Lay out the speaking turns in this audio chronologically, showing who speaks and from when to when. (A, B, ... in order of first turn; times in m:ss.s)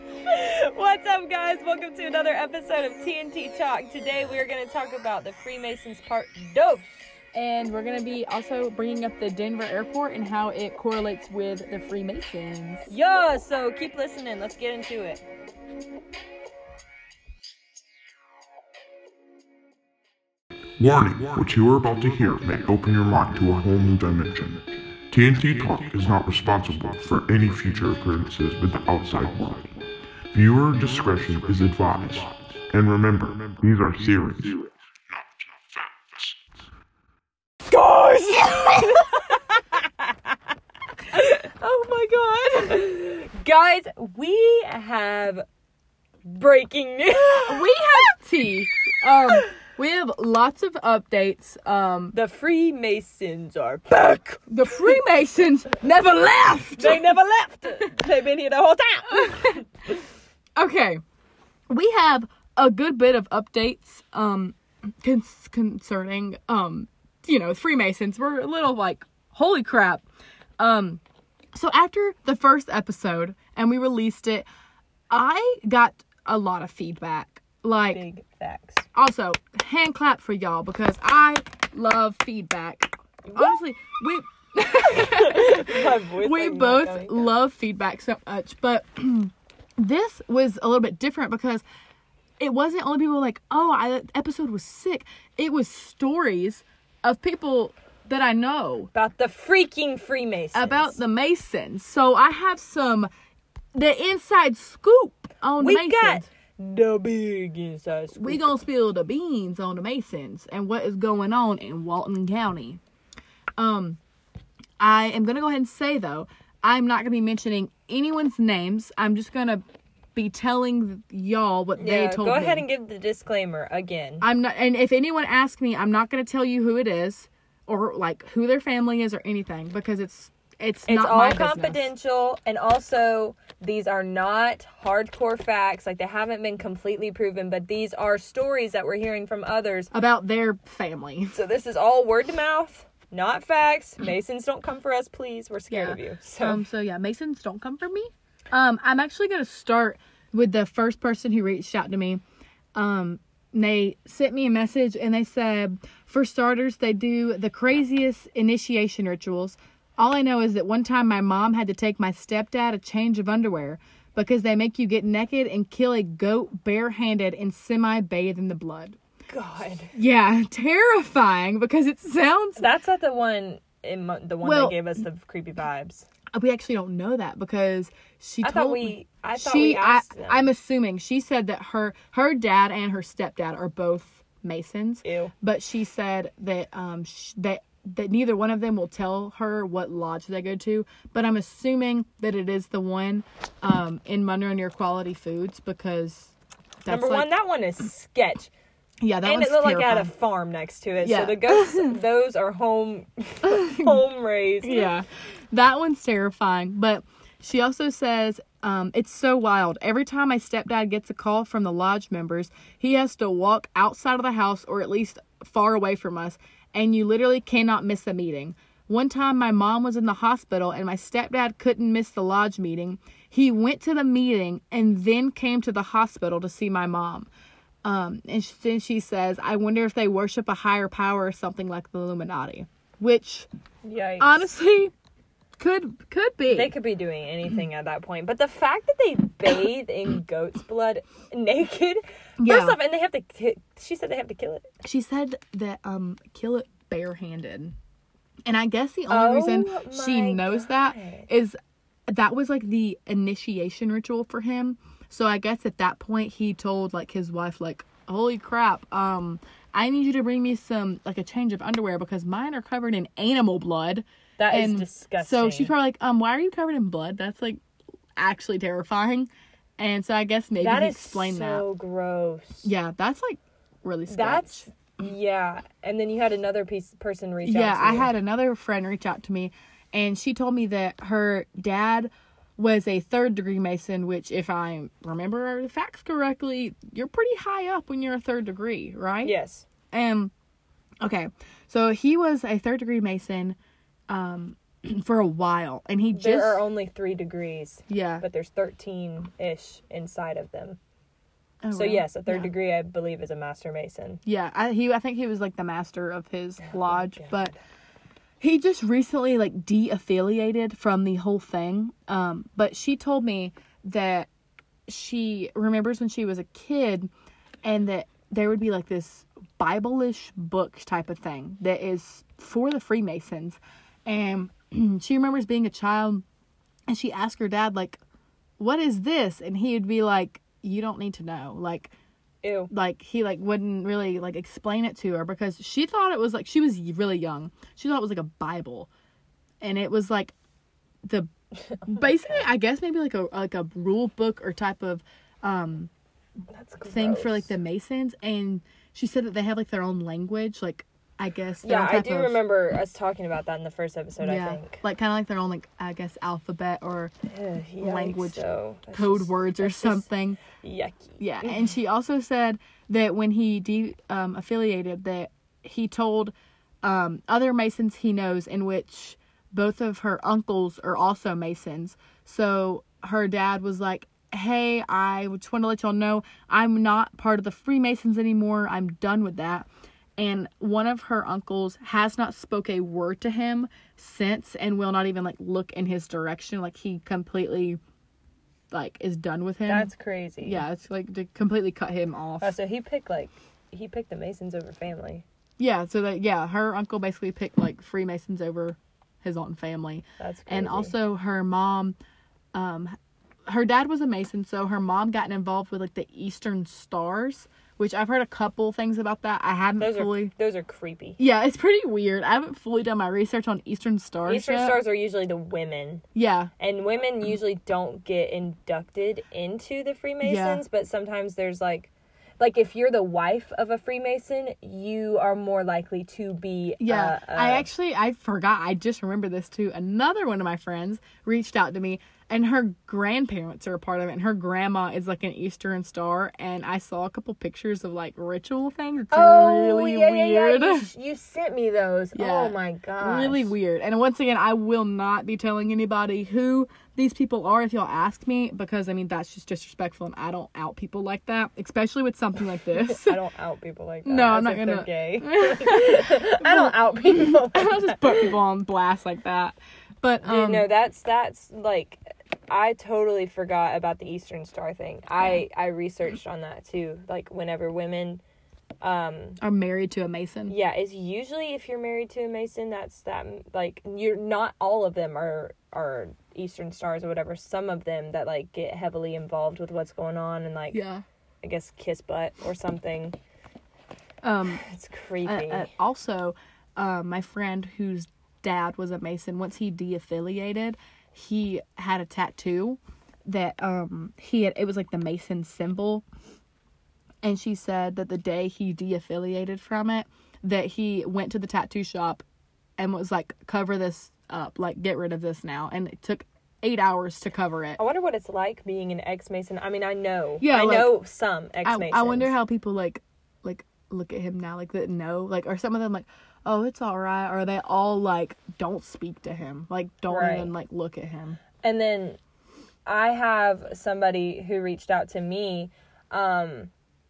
0:00.2-0:06.8 A
0:07.3-0:12.9 B
0:12.9-0:15.2 A
0:20.8-0:29.8 C
0:30.3-0:34.7 C
0:37.7-0:39.8 A
0:41.1-0:45.4 A
0:46.2-0:47.8 A
0:47.4-0:52.2 B
0:52.1-0:54.5 A
0:54.5-0:57.1 B
0:56.8-0:59.9 A
1:00.6-1:01.0 B
1:01.7-1:10.1 B
1:10.6-1:11.0 B
1:11.5-1:14.4 B
1:15.1-1:18.0 B
1:17.9-1:18.9 A
1:18.9-1:31.6 B
1:23.2-1:23.6 A
1:24.8-1:27.4 A
1:32.4-1:38.9 B
1:38.9-1:41.0 A
1:40.5-1:43.1 B
1:43.7-1:46.2 B
1:45.6-1:48.4 A
1:48.1-1:52.8 B
1:53.6-1:54.0 B
1:54.8-1:59.6 B
2:00.2-2:02.7 B
2:01.8-2:04.3 A
2:04.2-2:11.9 B
2:10.9-2:19.9 A
2:19.9-2:21.4 B
2:21.3-2:26.6 A
2:25.7-2:32.2 B
2:32.7-2:49.0 B
2:49.3-2:49.9 A
2:49.9-2:52.7 B
2:52.6-2:56.1 A
2:54.4-2:54.8 B
2:56.3-3:16.3 B
2:58.4-3:00.5 A
3:05.0-3:05.3 A
3:16.8-3:17.3 B
3:16.8-3:18.5 A
3:19.0-3:20.1 B
3:19.2-3:24.9 A
3:21.0-3:22.0 B
3:23.4-3:24.0 B
3:24.6-3:47.3 B
3:47.8-3:53.5 B
3:53.8-3:54.5 A
3:54.2-3:54.9 B
3:55.6-3:56.7 B
3:56.5-4:04.7 A
4:02.4-4:02.8 B
4:04.8-4:07.7 B
4:08.4-4:11.6 B
4:09.1-4:11.3 A
4:12.1-4:27.6 B
4:24.4-4:25.7 A
4:28.2-4:31.6 B
4:30.6-4:32.7 A
4:32.6-4:34.7 B
4:34.1-4:38.1 A
4:37.4-4:49.4 B
4:49.2-4:49.7 A
4:49.9-4:50.3 B
4:51.0-4:53.6 B
4:54.1-4:56.6 B
4:56.1-5:00.8 A
4:57.9-4:58.2 B
5:01.6-5:02.5 B
5:01.7-5:04.2 A
5:04.2-5:07.5 B
5:06.7-5:07.6 A
5:08.4-5:14.3 B
5:14.9-5:17.1 B
5:17.6-5:26.2 B
5:26.9-5:28.0 B
5:28.6-5:31.9 B
5:32.4-5:32.7 A
5:32.7-5:38.9 B
5:39.6-5:40.3 B
5:41.0-5:41.3 B
5:41.8-5:42.0 A
5:41.9-5:45.9 B
5:46.5-5:47.5 A
5:46.8-5:52.4 B
5:51.6-5:54.8 A
5:54.2-5:57.1 B
5:57.3-6:01.7 A
5:57.8-6:00.4 B
6:01.2-6:19.7 B
6:20.2-6:27.8 B
6:28.7-6:29.9 B
6:29.7-6:30.6 A
6:30.4-6:32.6 B
6:32.4-6:35.2 A
6:35.6-6:42.0 B
6:40.2-6:40.9 A
6:42.5-6:50.3 B
6:49.8-6:51.2 A
6:51.2-6:54.8 B
6:54.2-6:56.0 A
6:56.2-6:56.5 B
6:56.6-7:07.7 A
7:00.2-7:00.6 B
7:06.8-7:20.9 B
7:19.1-7:23.5 A
7:22.2-7:33.2 B
7:32.8-7:38.3 A
7:34.0-7:40.7 B
7:40.2-7:48.2 A
7:48.8-7:49.4 A
7:49.4-7:50.5 B
7:50.5-8:00.8 A
8:00.7-8:01.0 B
8:01.4-8:03.2 A
8:04.2-8:04.6 B
8:04.6-8:05.7 A
8:05.2-8:16.0 B
8:17.2-8:22.2 B
8:22.8-8:27.8 B
8:27.8-8:32.4 A
8:30.4-8:31.0 B
8:31.6-8:41.4 B
8:40.1-8:40.5 A
8:41.6-8:42.2 A
8:42.9-8:46.7 A